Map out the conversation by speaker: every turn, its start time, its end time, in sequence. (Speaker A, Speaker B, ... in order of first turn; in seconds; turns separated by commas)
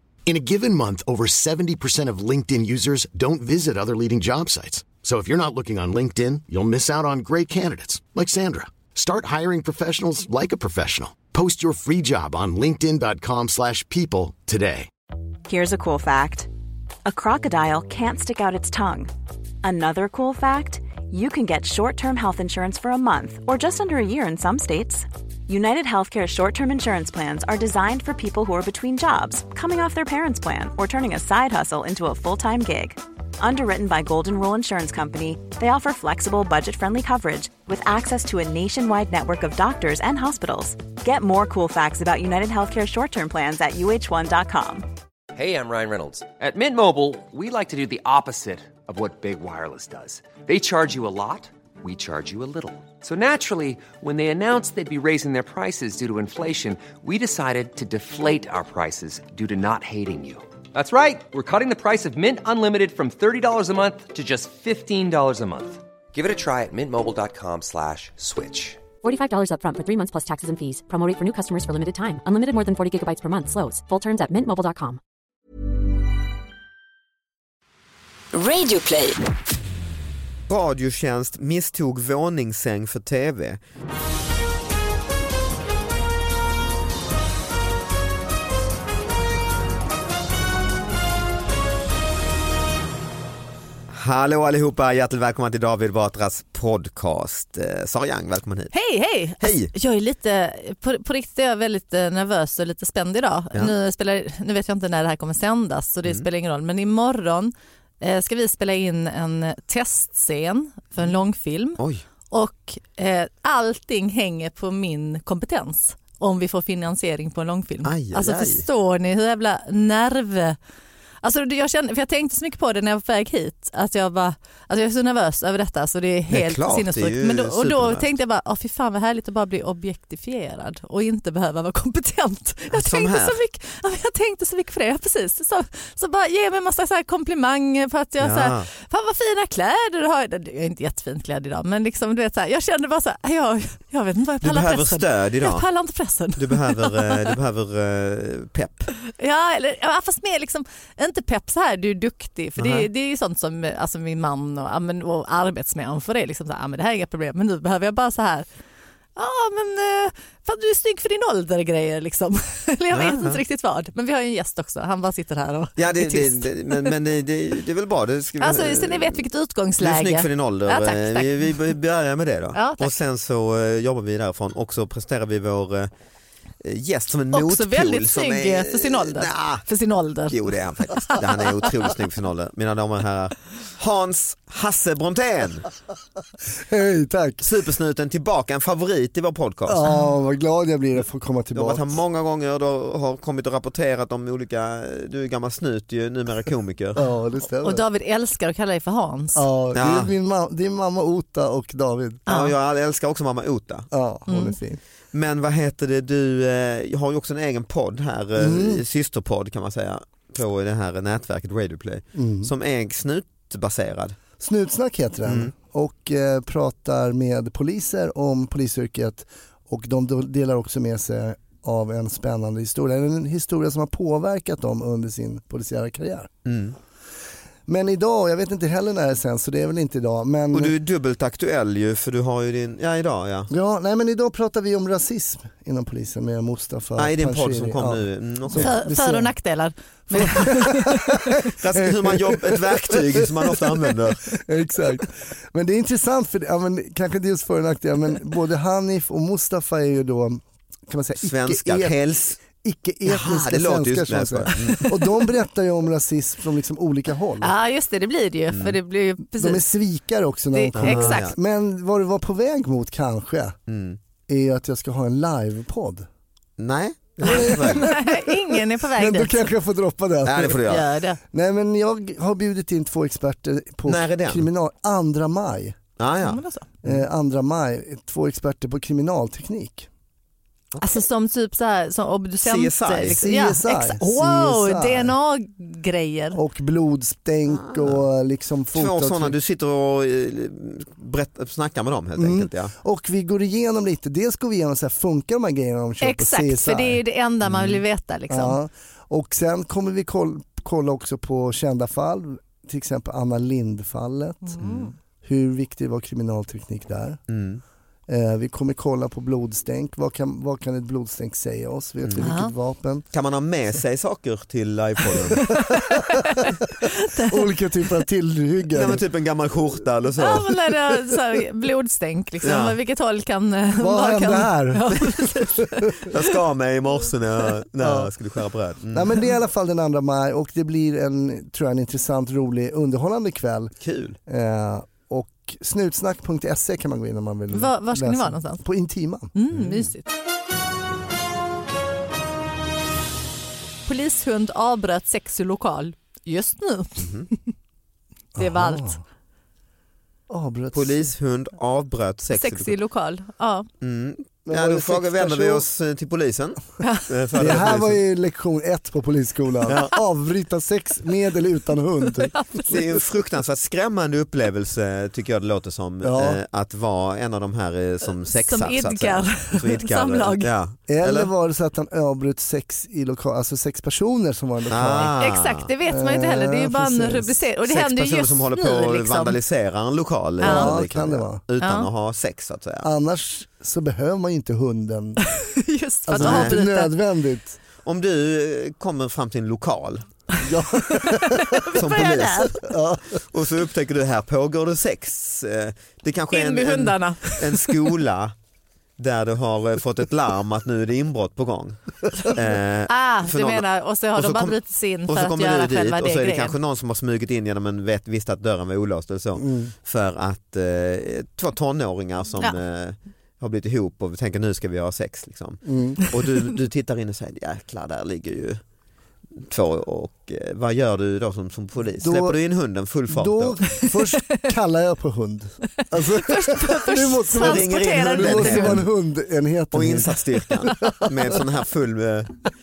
Speaker A: 0.3-14.9, Speaker B: 15.5-16.5, Speaker B: 17.1-19.1, Speaker B: 19.6-44.9, Speaker C: 45.3-68.8, Speaker D: 69.0-75.0, Speaker D: 78.3-79.2, Speaker E: 80.5-83.6, Speaker E: 93.9-98.7, Speaker F: 98.7-120.6, Speaker E: 99.4-99.7, Speaker E: 111.8-112.0, Speaker E: 117.8-118.7, Speaker F: 121.2-147.3, Speaker E: 126.3-128.1, Speaker E: 132.7-133.4, Speaker E: 138.2-138.7, Speaker E: 144.4-145.7, Speaker E: 146.4-148.9, Speaker F: 149.1-158.5, Speaker E: 152.6-152.9, Speaker F: 159.2-166.9, Speaker E: 162.9-163.4, Speaker E: 165.8-169.2, Speaker F: 168.4-171.6, Speaker E: 169.8-175.9, Speaker F: 172.5-172.9, Speaker E: 176.6-179.6, Speaker F: 177.3-180.3, Speaker E: 180.3-185.7, Speaker F: 180.9-181.7, Speaker G: 186.6-187.4, Speaker E: 187.4-189.8, Speaker G: 189.7-192.0, Speaker E: 191.5-197.0, Speaker G: 197.0-197.8, Speaker F: 197.6-199.5, Speaker G: 199.3-202.2, Speaker E: 199.7-200.1, Speaker F: 202.3-202.5, Speaker E: 202.3-203.9, Speaker G: 203.9-204.8, Speaker F: 204.3-204.6, Speaker E: 205.1-214.2, Speaker G: 208.4-208.8, Speaker G: 212.2-212.5, Speaker G: 214.4-226.3, Speaker E: 215.2-215.5, Speaker E: 226.4-226.8, Speaker G: 227.7-230.7, Speaker E: 230.5-233.5, Speaker G: 233.5-239.3, Speaker E: 237.0-238.8, Speaker F: 238.6-241.4, Speaker G: 240.1-240.9, Speaker E: 241.5-244.3, Speaker G: 241.8-243.6, Speaker G: 244.4-257.5, Speaker E: 251.2-252.4, Speaker E: 253.1-255.1, Speaker F: 257.4-259.6, Speaker E: 258.5-258.8, Speaker G: 259.3-263.6, Speaker F: 260.5-261.3, Speaker E: 260.8-261.4, Speaker E: 263.7-264.0, Speaker G: 264.3-266.1, Speaker E: 266.6-267.9, Speaker G: 267.3-268.2, Speaker F: 267.3-269.5, Speaker G: 268.9-275.8, Speaker E: 270.2-270.9, Speaker F: 270.7-271.2, Speaker E: 273.9-274.5, Speaker E: 276.0-277.0, Speaker F: 276.2-276.7, Speaker G: 276.8-279.9, Speaker E: 280.7-281.0, Speaker F: 280.8-286.4, Speaker E: 282.4-283.3, Speaker G: 283.0-285.1, Speaker G: 286.3-289.4, Speaker E: 287.5-288.1, Speaker E: 288.7-292.7, Speaker G: 292.2-297.0, Speaker F: 296.0-298.6, Speaker E: 297.4-297.8, Speaker G: 298.3-304.6, Speaker F: 304.4-304.9, Speaker E: 304.6-304.9, Speaker G: 305.2-307.2, Speaker E: 307.3-307.6, Speaker G: 308.1-313.1, Speaker E: 312.0-312.3, Speaker F: 312.2-312.5, Speaker E: 313.1-315.6, Speaker F: 315.3-317.4, Speaker G: 317.3-319.0, Speaker E: 318.7-320.6, Speaker F: 320.2-326.2, Speaker E: 322.4-322.8, Speaker G: 323.8-325.9, Speaker E: 326.1-329.2, Speaker G: 327.8-328.1, Speaker G: 328.9-333.8, Speaker E: 333.8-334.2, Speaker G: 334.3-339.3, Speaker F: 337.5-338.6, Speaker F: 339.3-340.1, Speaker E: 339.5-339.9, Speaker F: 343.9-347.5, Speaker E: 347.0-347.3, Speaker G: 348.4-349.0, Speaker F: 348.4-349.0, Speaker G: 350.3-351.1, Speaker E: 350.7-352.8, Speaker F: 352.3-353.7, Speaker E: 353.8-358.0, Speaker G: 354.5-355.7, Speaker F: 356.8-357.1, Speaker G: 357.4-362.3, Speaker E: 359.7-359.9, Speaker F: 362.1-362.8, Speaker E: 362.7-371.3, Speaker G: 366.0-366.4, Speaker F: 368.3-370.5, Speaker G: 370.9-375.1, Speaker E: 374.7-375.7, Speaker F: 375.0-379.4, Speaker G: 375.9-377.5, Speaker E: 377.7-382.9, Speaker F: 380.4-380.8, Speaker G: 380.4-381.4, Speaker F: 381.6-381.9, Speaker G: 382.8-385.2, Speaker F: 385.2-387.0, Speaker G: 386.1-387.6, Speaker E: 386.1-386.6, Speaker E: 387.8-390.1, Speaker G: 390.4-391.6, Speaker F: 390.9-392.6, Speaker E: 391.7-392.5, Speaker G: 392.5-393.2, Speaker E: 393.3-398.3, Speaker F: 396.3-397.7, Speaker E: 399.0-418.6, Speaker F: 402.9-406.6, Speaker G: 409.4-409.7, Speaker G: 415.6-416.0, Speaker E: 419.4-423.7, Speaker G: 422.0-422.4, Speaker G: 423.1-431.4, Speaker F: 425.8-428.8, Speaker E: 427.4-428.9, Speaker E: 429.7-432.4